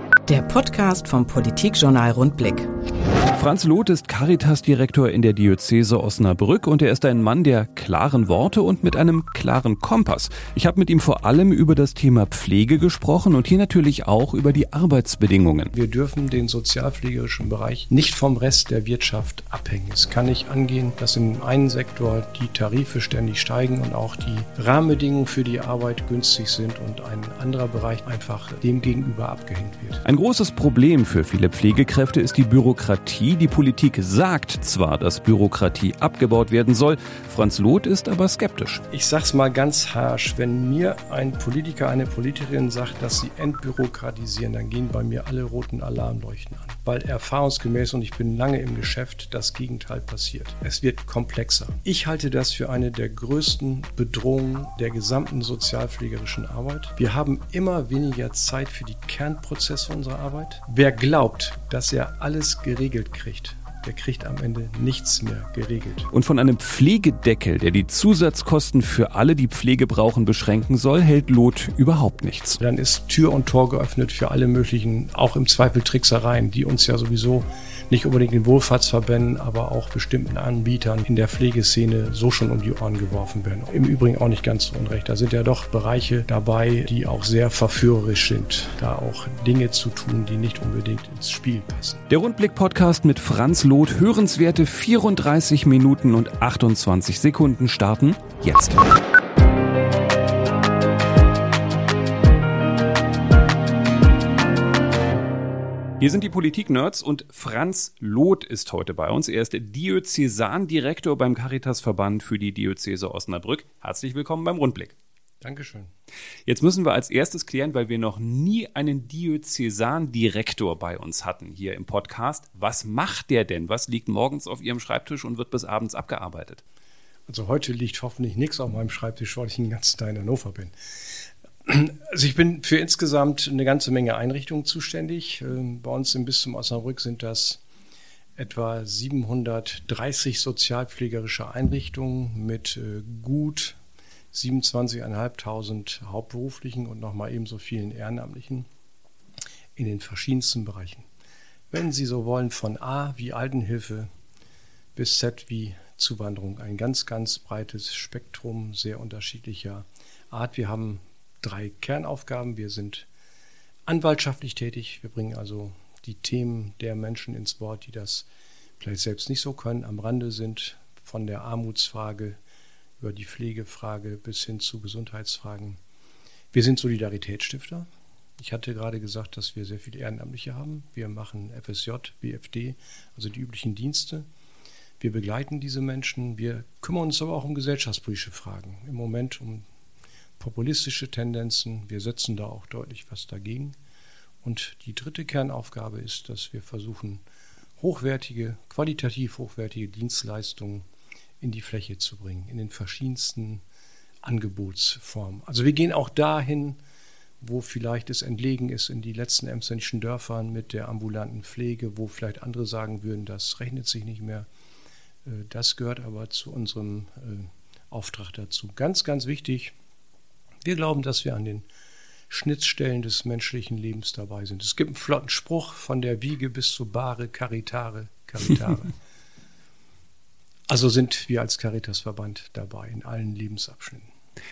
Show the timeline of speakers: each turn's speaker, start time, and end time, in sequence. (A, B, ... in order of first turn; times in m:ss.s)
0:00.3-0:02.7 A
0:03.3-0:15.7 B
0:15.7-0:30.0 C
0:30.0-0:38.8 B
0:38.9-1:06.1 C
1:06.1-1:12.6 B
1:12.6-1:32.0 C
1:32.1-1:38.8 B
1:46.0-1:54.9 B
1:55.4-1:55.9 C
1:56.4-2:06.6 B
2:07.3-2:10.7 C
2:11.6-2:17.6 C
2:18.4-2:23.8 C
2:24.3-2:28.7 C
2:29.8-2:31.0 C
2:31.7-2:34.1 C
2:34.9-2:43.1 C
2:43.8-2:48.3 C
2:48.8-2:52.4 C
2:53.0-2:55.8 C
2:56.5-2:57.9 C
2:58.4-3:04.2 C
3:05.0-3:09.6 C
3:10.4-3:13.8 C
3:14.4-3:17.2 C
3:17.8-3:20.8 C
3:21.4-3:23.6 C
3:24.2-3:26.8 C
3:27.4-3:34.4 C
3:35.2-3:39.7 C
3:40.6-3:41.6 C
3:42.3-3:48.9 C
3:50.7-3:54.1 C